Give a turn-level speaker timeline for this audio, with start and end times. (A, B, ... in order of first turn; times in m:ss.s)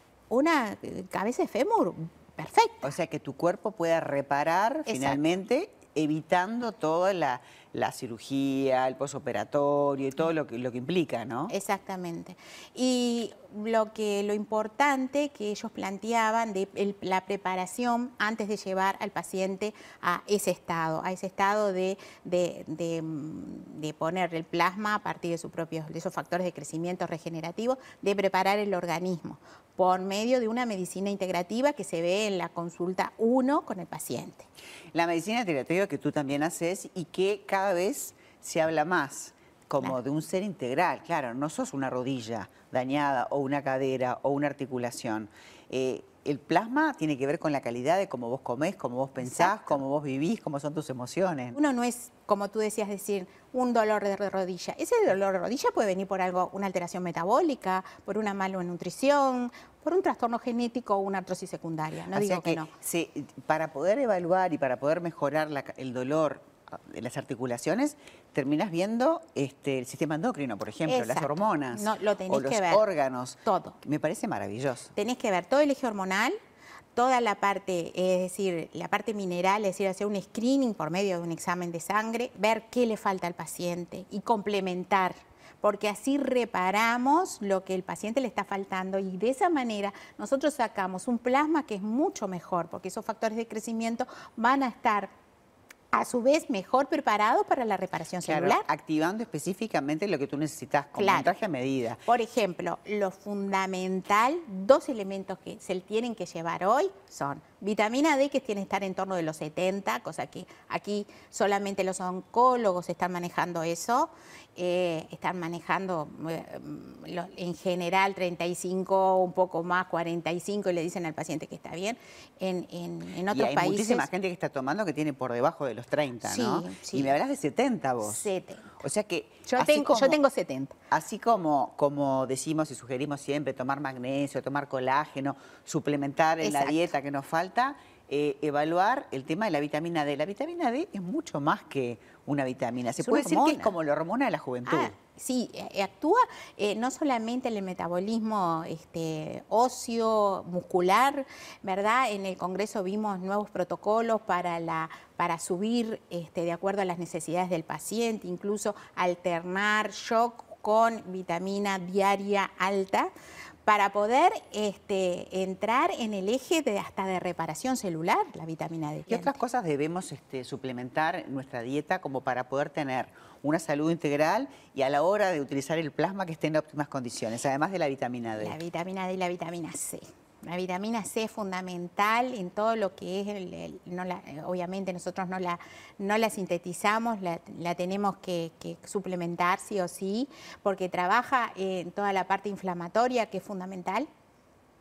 0:00.3-0:03.0 A
0:02.8-0:11.5 B
0:04.9-0:05.2 A
0:11.5-0:34.5 A
0:34.9-0:51.6 B
0:49.2-0:49.8 A
0:51.6-1:02.7 A
1:02.1-1:14.9 B
1:10.9-1:12.8 A
1:13.4-1:13.8 A
1:15.0-1:16.4 A
1:17.0-1:35.1 A
1:35.9-1:38.6 A
1:38.2-1:42.0 B
1:41.0-1:41.3 A
1:42.1-2:04.1 A
2:03.3-2:08.3 B
2:06.2-2:07.1 A
2:08.0-2:08.8 A
2:08.8-2:10.2 B
2:09.5-2:10.8 A
2:10.9-2:24.9 B
2:16.4-2:16.9 A
2:23.0-2:23.7 A
2:24.7-2:43.1 A
2:43.7-2:49.4 A
2:49.1-2:58.6 B
2:58.4-3:14.1 A